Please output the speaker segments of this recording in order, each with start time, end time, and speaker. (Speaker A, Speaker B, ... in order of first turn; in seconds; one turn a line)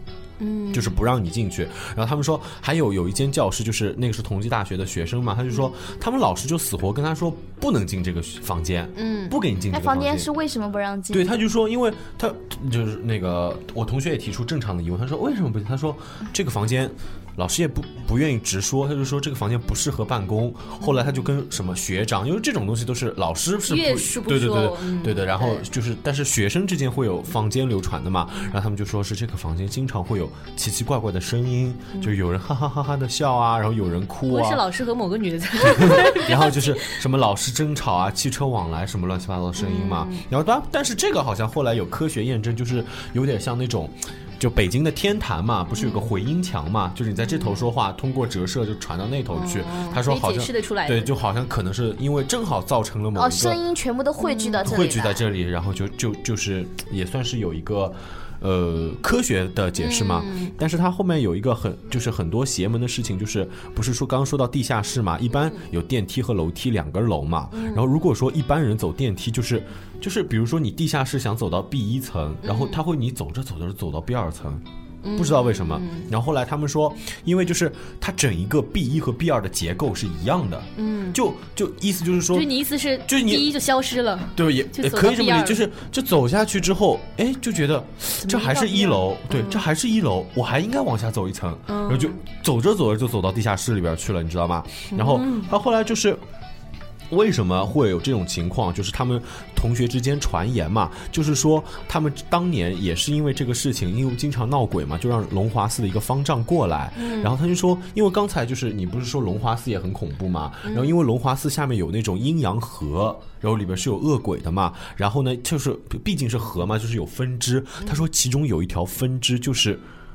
Speaker A: 0.4-1.0
Speaker B: 0.7-10.3
Speaker A: 8.9-9.4
Speaker C: 9.7-11.3
Speaker B: 11.1-34.6
Speaker A: 23.7-25.6
Speaker A: 34.2-37.0
Speaker B: 35.6-53.6
Speaker A: 39.5-40.3
Speaker A: 47.2-47.6
Speaker A: 49.3-51.1
Speaker C: 53.1-55.2
Speaker A: 54.2-54.6
Speaker B: 54.6-74.6
Speaker A: 59.8-60.5
Speaker A: 67.5-67.8
Speaker A: 72.4-72.8
Speaker A: 75.0-76.1
Speaker B: 75.1-82.5
Speaker A: 80.8-81.2
Speaker A: 82.3-85.7
Speaker B: 83.0-83.6
Speaker B: 84.3-96.2
Speaker A: 88.2-89.7
Speaker A: 91.7-92.2
Speaker A: 94.9-95.5
Speaker B: 97.1-119.8
Speaker A: 107.0-107.3
Speaker A: 110.6-111.0